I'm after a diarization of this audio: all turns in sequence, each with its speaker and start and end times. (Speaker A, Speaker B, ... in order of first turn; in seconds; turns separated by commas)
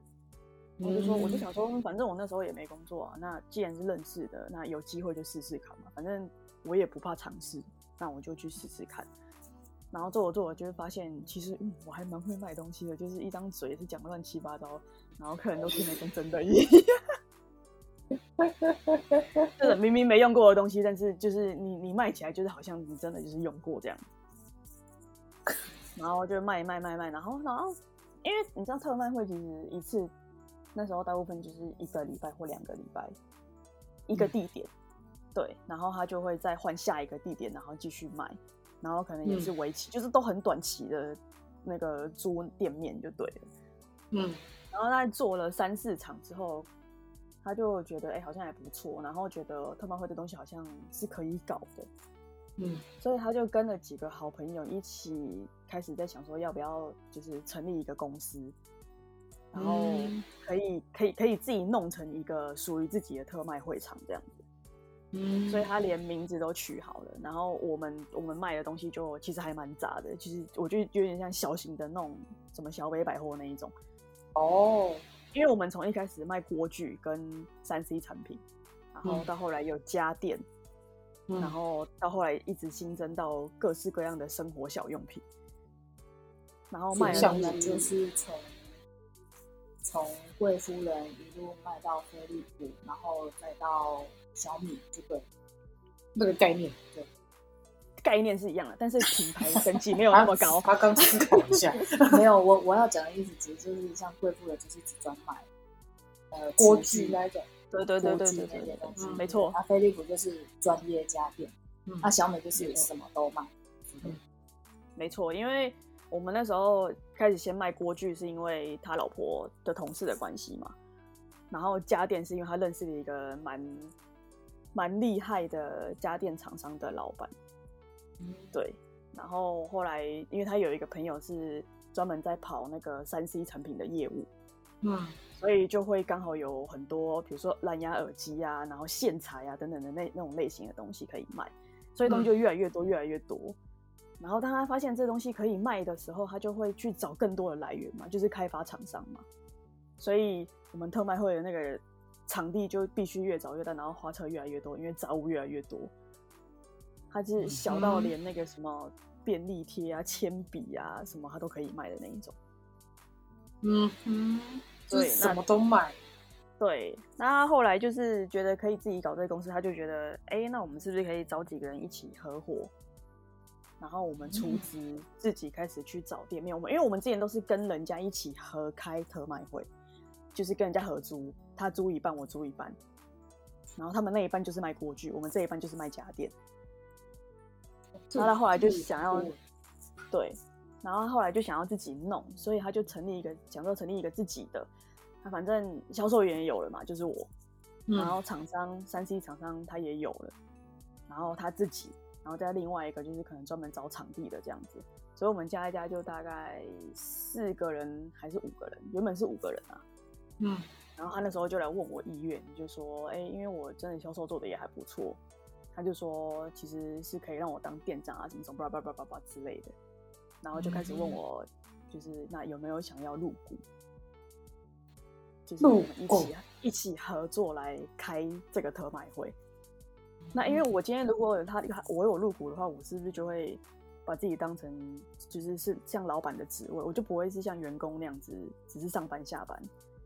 Speaker A: 0.8-1.4, Speaker B: 0.8-9.1, Speaker B: 9.9-16.9, Speaker A: 18.4-19.5, Speaker B: 19.6-24.0, Speaker B: 25.9-30.1, Speaker B: 30.7-33.1, Speaker B: 34.1-34.7, Speaker B: 35.3-43.5, Speaker A: 39.2-39.5, Speaker A: 44.1-44.4, Speaker B: 44.7-46.7, Speaker B: 47.4-51.9, Speaker A: 52.6-52.8, Speaker B: 53.0-58.5, Speaker B: 59.5-64.4, Speaker A: 59.5-60.2, Speaker A: 65.1-65.7, Speaker B: 65.5-73.7, Speaker A: 74.3-75.0, Speaker B: 75.3-78.4, Speaker B: 78.9-80.4, Speaker A: 81.3-81.5, Speaker B: 81.4-85.2, Speaker B: 86.7-87.6, Speaker C: 86.9-88.7, Speaker A: 87.0-87.9, Speaker C: 89.8-95.2, Speaker A: 96.2-97.1, Speaker B: 98.0-101.1, Speaker A: 100.1-102.2, Speaker C: 102.1-105.5, Speaker C: 106.3-107.2, Speaker A: 106.6-107.5, Speaker B: 107.7-109.5, Speaker C: 108.0-114.2, Speaker A: 109.0-109.3, Speaker A: 111.9-112.8, Speaker B: 115.0-120.7, Speaker B: 121.5-123.9, Speaker B: 124.7-127.3, Speaker A: 128.2-128.5, Speaker B: 128.5-134.3, Speaker A: 134.8-135.2, Speaker B: 135.4-143.6, Speaker A: 142.1-142.3, Speaker B: 144.2-149.2, Speaker B: 150.0-155.9, Speaker B: 157.1-162.3, Speaker A: 157.4-158.1, Speaker A: 163.6-166.0, Speaker B: 164.9-165.4, Speaker B: 166.6-172.7, Speaker B: 173.8-179.7, Speaker A: 174.3-174.6, Speaker B: 180.3-182.8, Speaker B: 183.8-186.3, Speaker A: 188.1-189.4, Speaker B: 188.2-189.3, Speaker B: 190.1-194.7, Speaker B: 195.2-197.3, Speaker A: 197.9-198.2, Speaker B: 197.9-200.3, Speaker B: 201.1-209.8, Speaker A: 210.4-210.7, Speaker B: 211.0-215.2, Speaker B: 215.7-219.7, Speaker B: 220.4-223.6, Speaker A: 220.5-221.2, Speaker B: 225.5-229.3, Speaker A: 225.6-226.3, Speaker A: 230.2-230.6, Speaker B: 230.3-239.7